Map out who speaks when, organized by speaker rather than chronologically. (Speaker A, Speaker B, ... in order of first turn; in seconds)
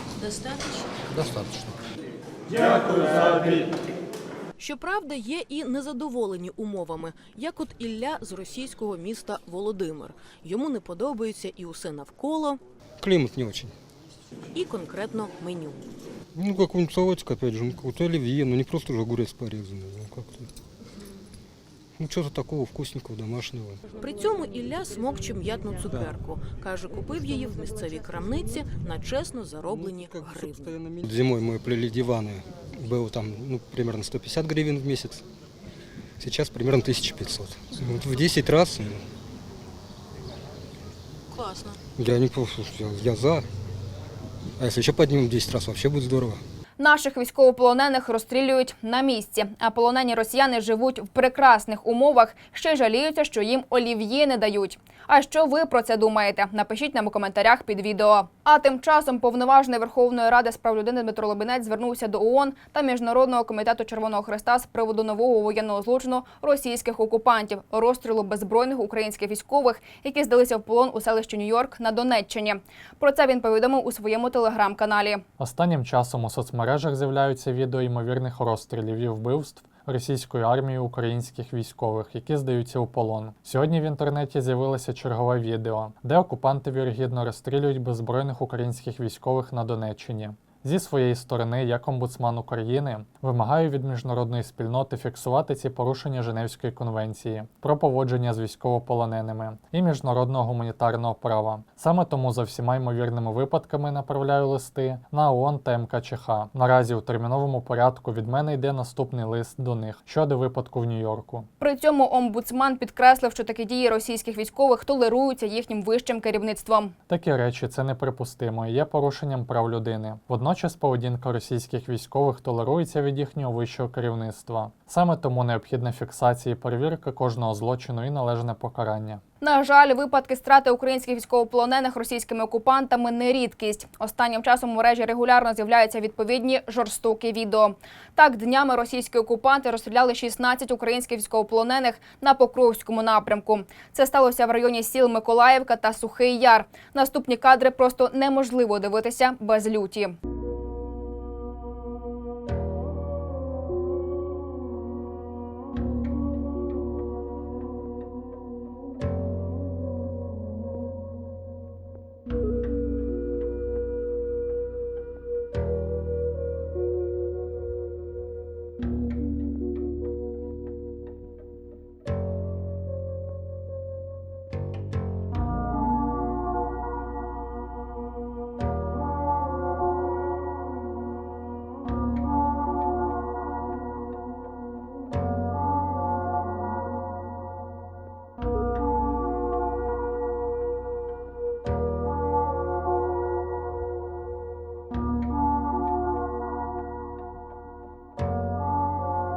Speaker A: 0.2-1.1, 3.1-3.3, 4.6-12.6, 14.5-15.8, 24.0-30.8, 41.3-41.8
Speaker B: 1.2-1.7, 13.0-13.7, 16.3-20.5, 21.9-23.8, 29.7-35.2, 36.2-39.0, 41.9-43.5, 44.6-46.4
Speaker C: 46.8-75.2, 111.6-116.9, 129.4-150.1
Speaker D: 75.4-111.5, 117.1-129.2